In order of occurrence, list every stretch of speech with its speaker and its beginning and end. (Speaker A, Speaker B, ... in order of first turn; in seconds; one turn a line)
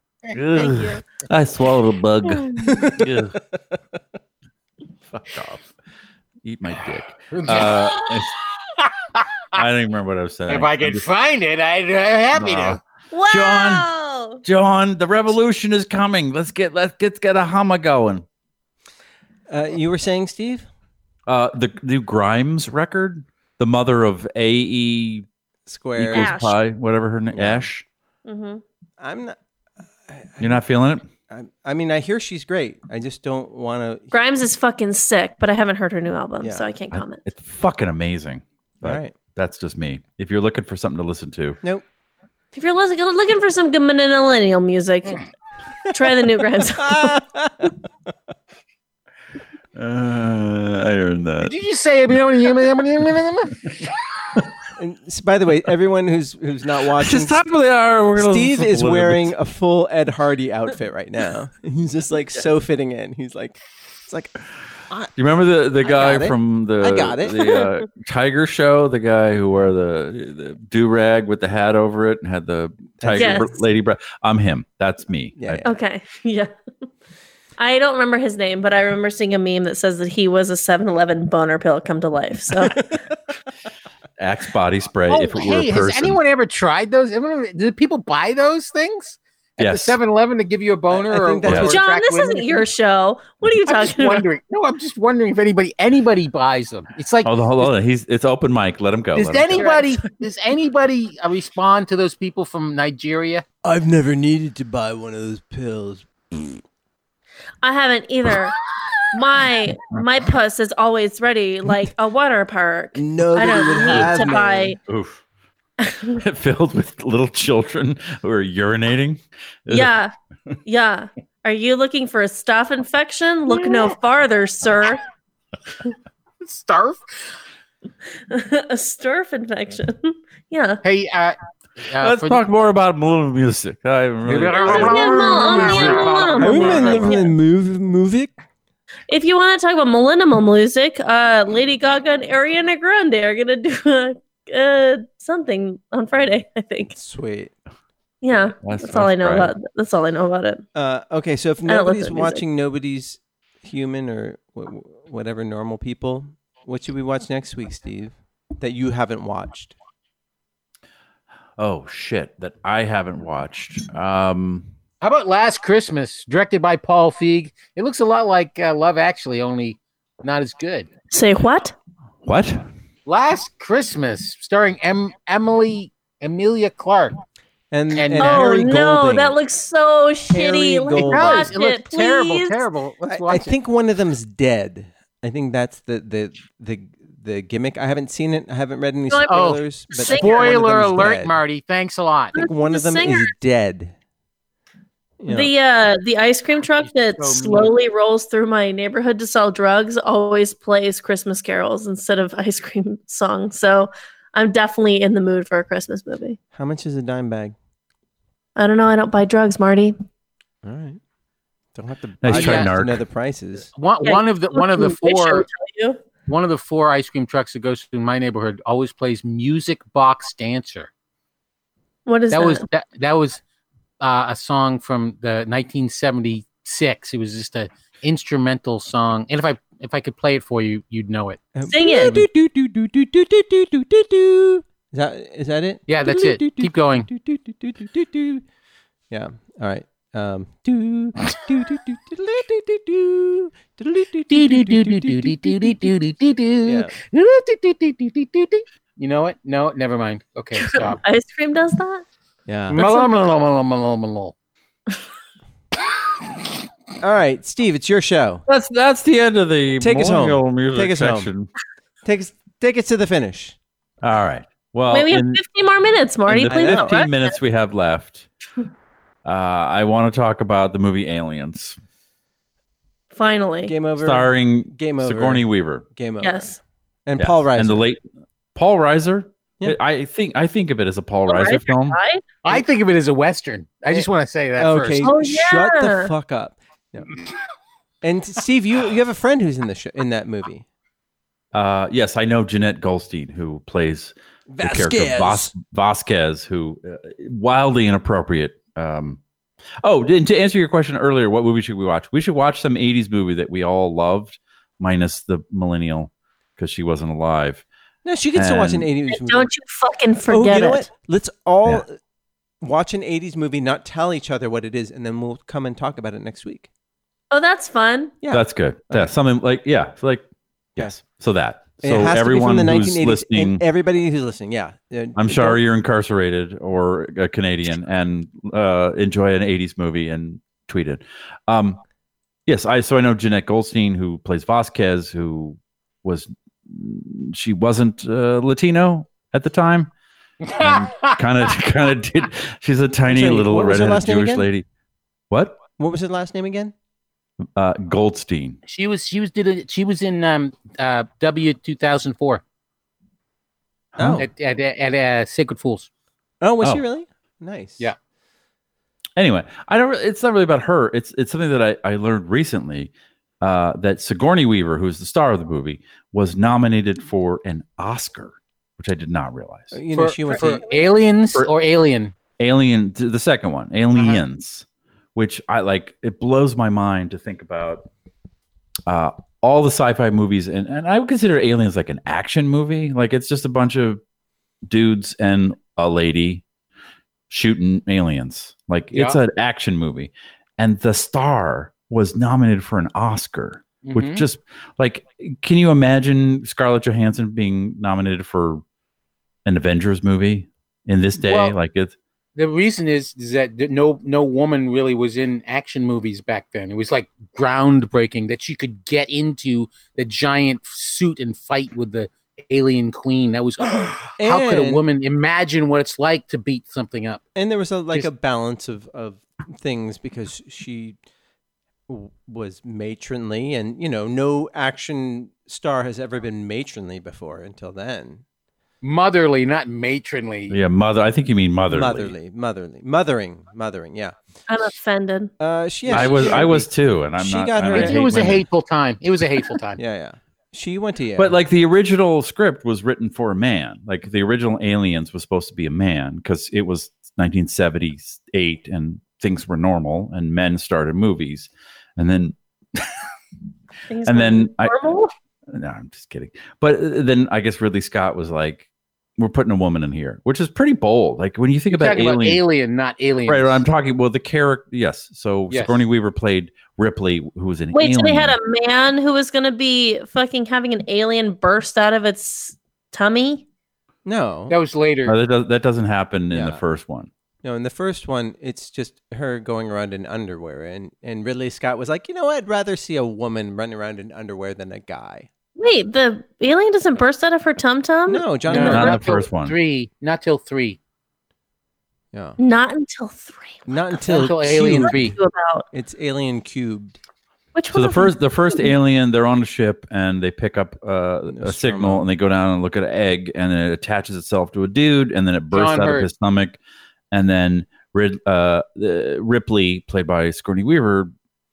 Speaker A: 0.3-3.4
Speaker B: 0.6-1.0
Speaker C: 2.7-3.1
Speaker A: 5.1-5.7
Speaker A: 6.4-8.3
Speaker D: 7.3-8.1
Speaker D: 8.8-9.2
Speaker A: 9.5-11.1
Speaker D: 10.5-12.8
Speaker A: 12.3-13.9
Speaker B: 13.1-14.4
Speaker A: 14.4-18.2
Speaker C: 19.5-20.7
Speaker A: 21.3-25.3
Speaker C: 25.7-26.3
Speaker A: 26.0-27.8
Speaker B: 26.1-26.5
Speaker C: 27.3-27.6
Speaker B: 28.2-28.6
Speaker C: 29.0-29.4
Speaker C: 30.1-30.6
Speaker A: 30.4-31.1
Speaker C: 31.3-34.1
Speaker B: 34.1-37.2
Speaker C: 36.4-36.7
Speaker A: 36.9-41.6
Speaker C: 38.8-39.1
Speaker B: 42.5-45.2
Speaker B: 45.9-47.2
Speaker C: 46.8-47.7
Speaker A: 49.7-51.5
Speaker D: 51.4-53.6
Speaker C: 54.8-57.4
Speaker A: 56.9-59.3
Speaker C: 58.1-64.3
Speaker A: 65.2-75.7
Speaker C: 65.8-67.5
Speaker C: 73.0-73.5
Speaker B: 73.1-73.5
Speaker C: 75.3-75.7
Speaker B: 75.6-76.5
Speaker B: 77.6-82.8
Speaker A: 84.2-86.2
Speaker D: 85.1-92.6
Speaker A: 89.6-90.0
Speaker C: 90.9-91.8
Speaker A: 91.4-91.7
Speaker B: 91.7-94.2
Speaker D: 93.7-97.7
Speaker A: 97.2-99.6
Speaker D: 99.1-103.4
Speaker B: 99.6-99.9
Speaker C: 103.6-106.6
Speaker B: 107.6-108.5
Speaker B: 109.1-114.8
Speaker C: 113.0-114.7
Speaker A: 114.8-115.2
Speaker B: 115.8-116.2
Speaker A: 116.1-119.9
Speaker B: 119.7-120.1
Speaker B: 120.7-125.0
Speaker D: 126.4-127.0
Speaker B: 128.3-130.8
Speaker D: 130.8-132.4
Speaker A: 132.0-135.3
Speaker D: 134.2-137.2
Speaker B: 134.6-137.3
Speaker C: 136.4-138.3
Speaker B: 139.1-146.9
Speaker C: 146.9-147.5
Speaker B: 148.2-150.6
Speaker A: 148.6-149.5
Speaker C: 150.7-159.8
Speaker B: 151.7-152.4
Speaker A: 161.6-164.7
Speaker D: 165.0-170.9
Speaker B: 171.1-171.7
Speaker A: 172.2-172.7
Speaker D: 173.1-177.2
Speaker C: 177.7-179.3
Speaker D: 177.9-178.6
Speaker B: 178.2-182.6
Speaker C: 180.3-181.5
Speaker D: 180.9-183.5
Speaker C: 183.1-191.3
Speaker B: 189.1-190.6
Speaker D: 189.3-192.4
Speaker B: 192.3-193.3
Speaker C: 192.5-193.9
Speaker C: 195.2-195.5
Speaker B: 195.3-206.4
Speaker D: 196.8-197.7
Speaker C: 206.5-207.5
Speaker B: 208.6-209.9
Speaker C: 210.6-211.0
Speaker C: 211.7-213.7
Speaker A: 212.2-213.0
Speaker D: 212.3-212.7
Speaker D: 213.7-215.4
Speaker B: 214.0-216.0
Speaker D: 216.3-220.9
Speaker B: 222.1-222.6
Speaker D: 222.3-223.4
Speaker D: 224.0-231.4
Speaker C: 231.5-238.4
Speaker B: 231.7-232.3
Speaker D: 235.9-237.1
Speaker C: 239.1-245.9
Speaker D: 244.3-251.0
Speaker C: 246.6-246.9
Speaker B: 250.6-252.0
Speaker C: 252.5-252.8
Speaker D: 252.7-254.3
Speaker B: 252.8-253.1
Speaker C: 257.0-258.4
Speaker A: 258.5-261.5
Speaker C: 259.8-261.3
Speaker C: 262.0-263.6
Speaker A: 264.0-265.4
Speaker B: 264.9-267.3
Speaker A: 266.3-268.3
Speaker C: 266.5-267.0
Speaker A: 269.2-271.8
Speaker B: 273.1-273.8
Speaker C: 273.7-277.9
Speaker A: 274.0-275.9
Speaker B: 276.2-276.6
Speaker A: 277.2-282.0
Speaker B: 281.3-282.2
Speaker D: 282.4-285.1
Speaker C: 284.6-287.1
Speaker B: 285.0-286.1
Speaker C: 288.0-290.6
Speaker A: 291.5-299.2
Speaker C: 294.5-295.5
Speaker A: 299.8-307.6
Speaker C: 308.0-309.5
Speaker A: 308.3-308.9
Speaker B: 309.1-310.9
Speaker C: 310.3-311.9
Speaker C: 312.6-316.7
Speaker B: 317.3-318.1
Speaker C: 318.2-319.1
Speaker A: 318.3-323.6
Speaker C: 321.8-325.6
Speaker A: 325.1-331.8
Speaker A: 332.4-339.9
Speaker D: 340.4-341.2
Speaker A: 340.6-344.6
Speaker C: 343.1-344.5
Speaker A: 345.3-345.6
Speaker C: 345.8-346.7
Speaker A: 347.6-348.6
Speaker D: 348.6-352.4
Speaker A: 353.9-354.2
Speaker C: 354.0-354.3
Speaker D: 354.2-355.9
Speaker C: 356.4-357.9
Speaker A: 359.1-369.8
Speaker C: 369.7-370.6
Speaker D: 369.9-372.1
Speaker A: 372.4-377.9
Speaker D: 373.9-374.2
Speaker A: 378.9-384.0
Speaker A: 384.7-386.4
Speaker A: 387.3-398.6
Speaker D: 388.9-389.2
Speaker D: 393.8-394.2
Speaker A: 399.4-401.9
Speaker D: 401.2-401.6
Speaker D: 402.4-417.2
Speaker C: 414.2-414.8
Speaker C: 417.3-421.0
Speaker C: 421.9-428.2
Speaker D: 428.8-430.6
Speaker A: 430.5-432.1
Speaker C: 431.7-434.1
Speaker B: 434.5-435.3
Speaker C: 435.4-438.4
Speaker A: 435.9-438.4
Speaker D: 435.9-436.5
Speaker D: 437.7-439.8
Speaker C: 439.8-441.4
Speaker A: 441.2-453.0
Speaker B: 453.9-455.1
Speaker A: 454.1-454.7
Speaker A: 455.5-458.7
Speaker A: 459.2-462.4
Speaker D: 461.7-463.6
Speaker A: 463.3-468.4
Speaker D: 465.5-465.8
Speaker B: 467.7-473.4
Speaker C: 474.0-474.6
Speaker D: 474.5-475.1
Speaker A: 475.1-477.1
Speaker C: 476.3-476.6
Speaker C: 477.4-485.3
Speaker B: 485.6-488.9
Speaker C: 488.1-489.0
Speaker D: 488.5-490.8
Speaker A: 488.5-489.5
Speaker C: 492.1-492.4
Speaker B: 492.4-495.6
Speaker C: 493.7-495.0
Speaker D: 494.1-495.1
Speaker C: 495.7-497.0
Speaker B: 497.5-498.7
Speaker A: 497.7-506.6
Speaker C: 501.3-502.0
Speaker D: 505.5-506.1
Speaker A: 507.1-511.1